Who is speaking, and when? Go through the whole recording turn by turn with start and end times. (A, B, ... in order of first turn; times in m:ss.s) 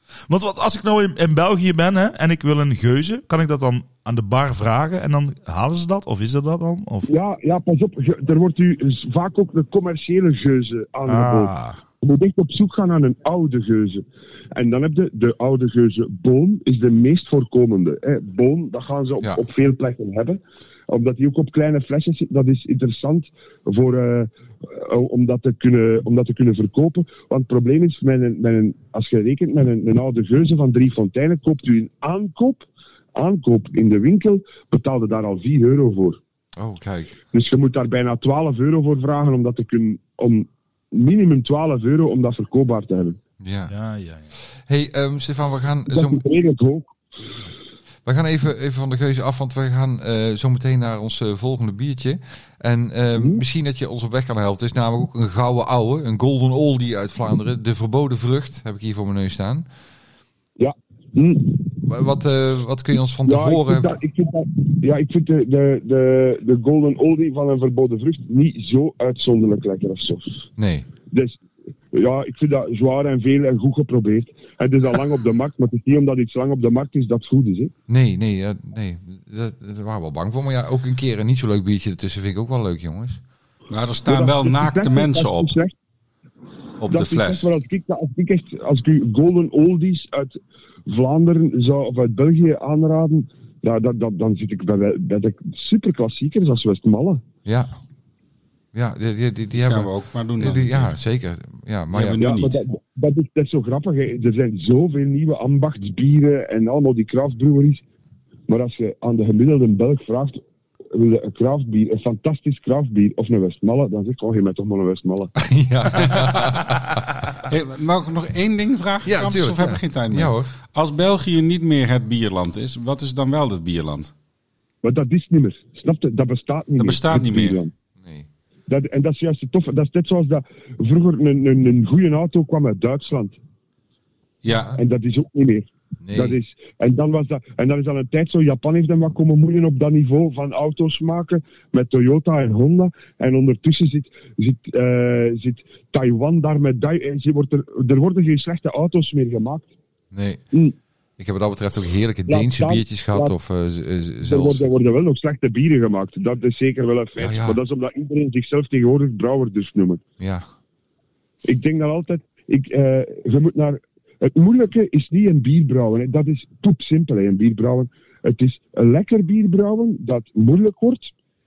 0:00.3-0:07.1 A
0:07.1-0:36.2 B
0:11.1-0:11.8 A
0:36.6-0:37.2 C
0:37.3-0:43.2 B
0:43.4-0:43.7 C
0:43.7-0:44.3 A
0:44.7-0:46.2 C
0:45.9-0:47.0 B
0:48.0-0:59.6 C
0:53.1-0:53.4 B
1:00.6-1:01.7 B
1:01.8-1:03.9 C
1:03.2-1:10.4 B
1:10.6-1:10.9 C
1:11.1-1:11.4 B
1:11.9-1:17.7 B
1:17.9-1:23.2 C
1:23.7-1:25.5 D
1:24.0-1:25.7 B
1:26.8-1:27.5 D
1:26.8-1:37.2 B
1:37.4-1:37.7 C
1:38.7-1:42.2 C
1:39.5-1:41.0 D
1:41.9-1:42.6 D
1:42.1-1:47.8 B
1:48.5-1:55.3 B
1:55.4-1:57.0 C
1:55.9-1:56.7 D
1:57.4-2:04.1 D
1:59.0-2:00.5 C
2:04.8-2:07.7 B
2:06.8-2:07.6 D
2:08.0-2:08.3 C
2:08.7-2:13.4 B
2:14.4-2:14.7 D
2:14.7-2:29.7 B
2:16.0-2:16.4 C
2:30.1-2:30.4 C
2:31.2-2:34.6 C
2:32.3-2:33.3 B
2:34.2-2:40.0 B
2:37.2-2:37.6 C
2:40.2-2:40.4 C
2:41.4-2:51.1 B